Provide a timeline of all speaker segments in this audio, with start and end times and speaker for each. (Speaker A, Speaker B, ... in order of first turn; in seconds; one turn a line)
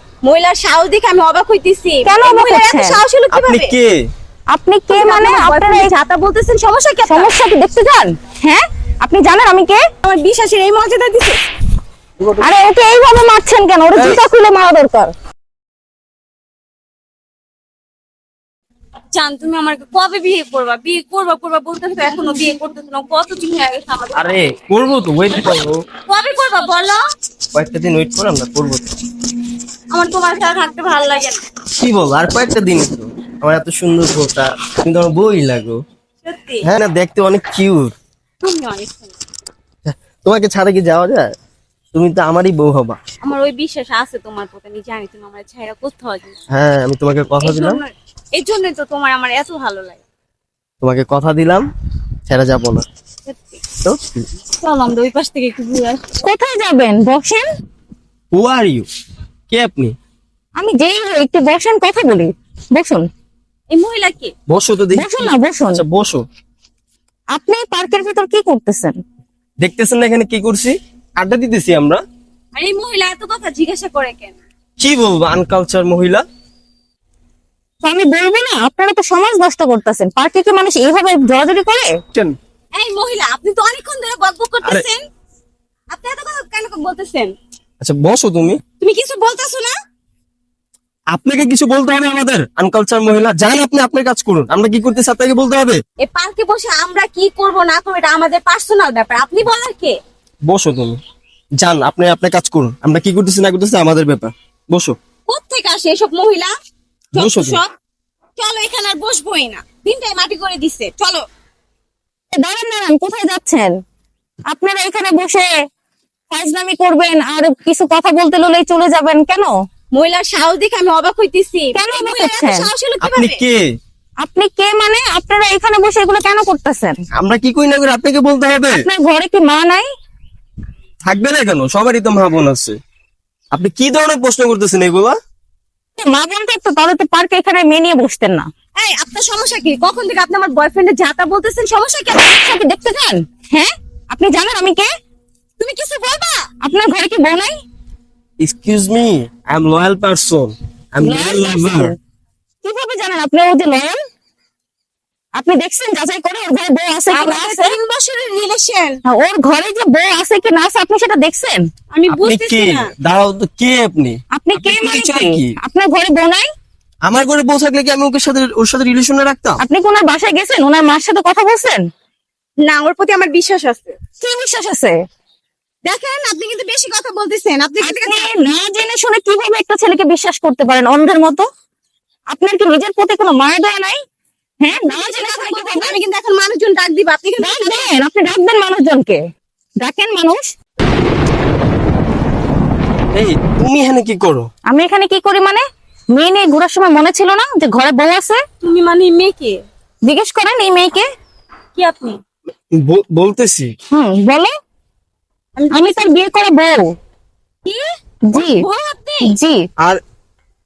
Speaker A: 0.2-3.8
Speaker B: 2.1-3.0
Speaker C: 3.3-4.0
Speaker B: 4.5-5.9
Speaker A: 4.9-7.3
Speaker B: 7.1-9.8
Speaker A: 10.0-11.4
Speaker B: 12.4-15.1
Speaker C: 13.9-14.2
Speaker A: 19.1-24.4
Speaker C: 24.2-25.8
Speaker A: 26.1-27.0
Speaker C: 27.5-28.9
Speaker A: 29.9-31.4
Speaker C: 31.7-35.8
Speaker A: 36.2-36.6
Speaker C: 36.6-37.9
Speaker A: 38.4-39.1
Speaker C: 39.9-41.3
Speaker C: 41.9-43.0
Speaker A: 43.2-46.4
Speaker C: 46.5-47.8
Speaker A: 47.4-50.0
Speaker C: 50.8-51.7
Speaker C: 52.3-52.8
Speaker A: 53.2-53.6
Speaker C: 53.8-54.3
Speaker A: 54.6-56.1
Speaker B: 56.2-57.5
Speaker C: 58.3-58.9
Speaker C: 59.5-60.0
Speaker B: 60.6-63.0
Speaker A: 63.7-64.3
Speaker C: 64.5-66.2
Speaker B: 64.9-65.8
Speaker B: 67.3-69.0
Speaker C: 69.6-72.0
Speaker A: 72.5-74.4
Speaker C: 74.8-76.2
Speaker B: 77.8-81.9
Speaker A: 82.8-85.0
Speaker A: 85.9-87.3
Speaker C: 87.8-88.6
Speaker A: 88.8-89.8
Speaker C: 91.1-95.8
Speaker A: 96.0-100.0
Speaker C: 100.5-101.0
Speaker C: 101.6-105.0
Speaker A: 105.3-106.5
Speaker A: 107.1-107.7
Speaker C: 107.2-107.6
Speaker A: 108.4-111.2
Speaker B: 112.3-113.7
Speaker B: 114.5-115.5
Speaker B: 116.3-119.5
Speaker A: 119.9-123.4
Speaker B: 121.8-122.7
Speaker C: 123.0-123.7
Speaker B: 124.2-127.0
Speaker C: 127.2-128.8
Speaker B: 128.7-129.9
Speaker C: 131.1-132.8
Speaker C: 133.5-135.2
Speaker B: 136.0-138.5
Speaker A: 138.8-142.5
Speaker B: 142.3-144.9
Speaker A: 145.6-146.5
Speaker B: 146.6-147.6
Speaker C: 148.4-151.9
Speaker B: 151.0-152.0
Speaker B: 152.6-153.9
Speaker B: 155.4-157.8
Speaker A: 157.1-159.0
Speaker B: 159.1-161.6
Speaker A: 161.9-162.9
Speaker C: 162.1-165.5
Speaker B: 164.4-166.5
Speaker C: 167.1-169.6
Speaker B: 169.6-171.8
Speaker A: 172.6-174.0
Speaker B: 174.2-175.0
Speaker A: 175.9-178.3
Speaker B: 177.8-181.4
Speaker B: 182.3-184.0
Speaker B: 184.6-186.0
Speaker A: 184.9-187.9
Speaker B: 187.4-189.2
Speaker B: 189.8-190.5
Speaker C: 193.1-194.5
Speaker B: 194.7-198.4
Speaker A: 198.6-199.6
Speaker B: 200.1-201.1
Speaker A: 201.8-202.2
Speaker C: 202.8-203.7
Speaker B: 203.9-204.5
Speaker A: 205.6-206.2
Speaker B: 205.7-206.9
Speaker A: 207.7-209.3
Speaker B: 208.3-208.6
Speaker B: 209.3-209.6